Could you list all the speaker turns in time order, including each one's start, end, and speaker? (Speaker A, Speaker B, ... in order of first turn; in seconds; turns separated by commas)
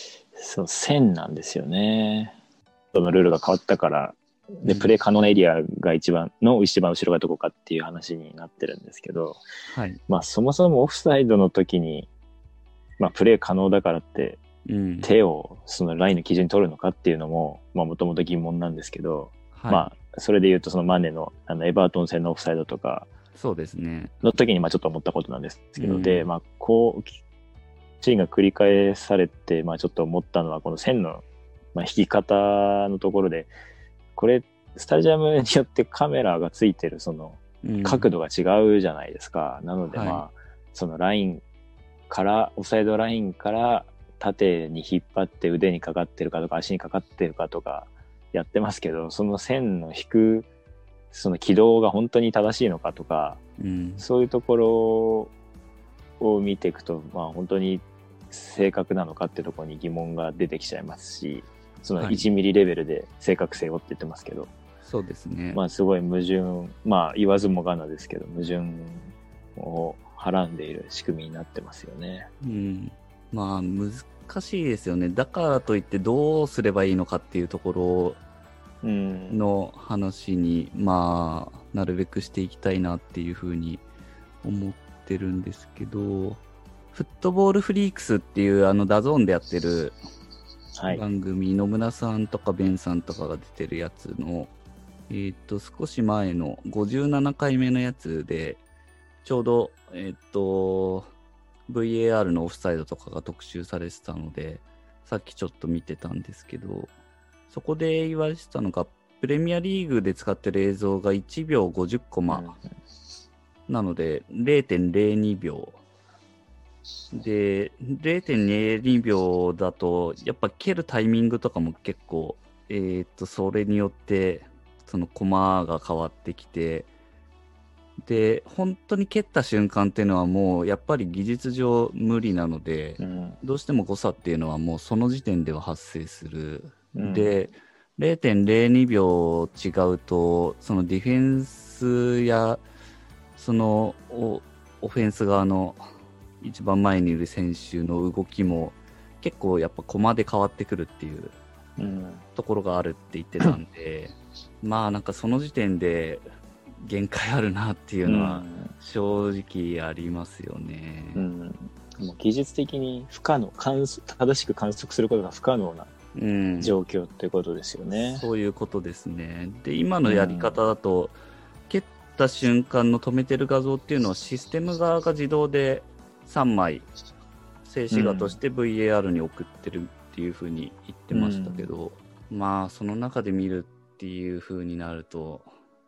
Speaker A: 0.3-2.4, Speaker A: 2.9-9.4, Speaker B: 4.7-4.9, Speaker B: 9.7-10.0, Speaker A: 10.1-12.1, Speaker A: 13.0-14.4, Speaker B: 14.7-15.1, Speaker A: 15.0-23.1, Speaker B: 19.6-19.9, Speaker B: 23.4-24.1, Speaker A: 24.2-27.2, Speaker B: 25.8-26.3, Speaker A: 28.0-33.5, Speaker A: 34.2-41.4, Speaker B: 37.6-38.1, Speaker B: 39.9-40.2, Speaker A: 42.1-50.5, Speaker A: 51.1-53.4, Speaker B: 53.6-54.0, Speaker A: 54.0-55.3, Speaker A: 56.2-64.5, Speaker B: 62.0-62.3, Speaker B: 64.8-65.6, Speaker A: 65.5-72.3, Speaker B: 72.4-78.2, Speaker A: 78.8-79.4, Speaker B: 79.3-83.8, Speaker B: 84.4-86.4, Speaker B: 86.9-90.0, Speaker A: 90.8-91.0, Speaker B: 90.9-94.5, Speaker B: 95.1-98.6, Speaker B: 99.2-101.1, Speaker B: 101.7-106.9, Speaker B: 107.5-112.5, Speaker A: 112.3-112.6, Speaker B: 113.7-115.8, Speaker B: 117.1-126.9, Speaker B: 128.0-142.6, Speaker A: 133.0-133.4, Speaker A: 136.9-137.3, Speaker B: 143.4-145.8, Speaker B: 146.4-151.4, Speaker A: 151.8-152.2, Speaker B: 152.3-156.2, Speaker B: 156.8-161.2, Speaker A: 158.1-158.7, Speaker A: 161.2-165.9, Speaker B: 166.2-166.8, Speaker A: 166.6-168.3, Speaker B: 168.0-171.2, Speaker A: 170.1-170.6, Speaker B: 171.7-176.9, Speaker B: 177.6-185.5, Speaker A: 177.9-178.4, Speaker A: 181.1-181.7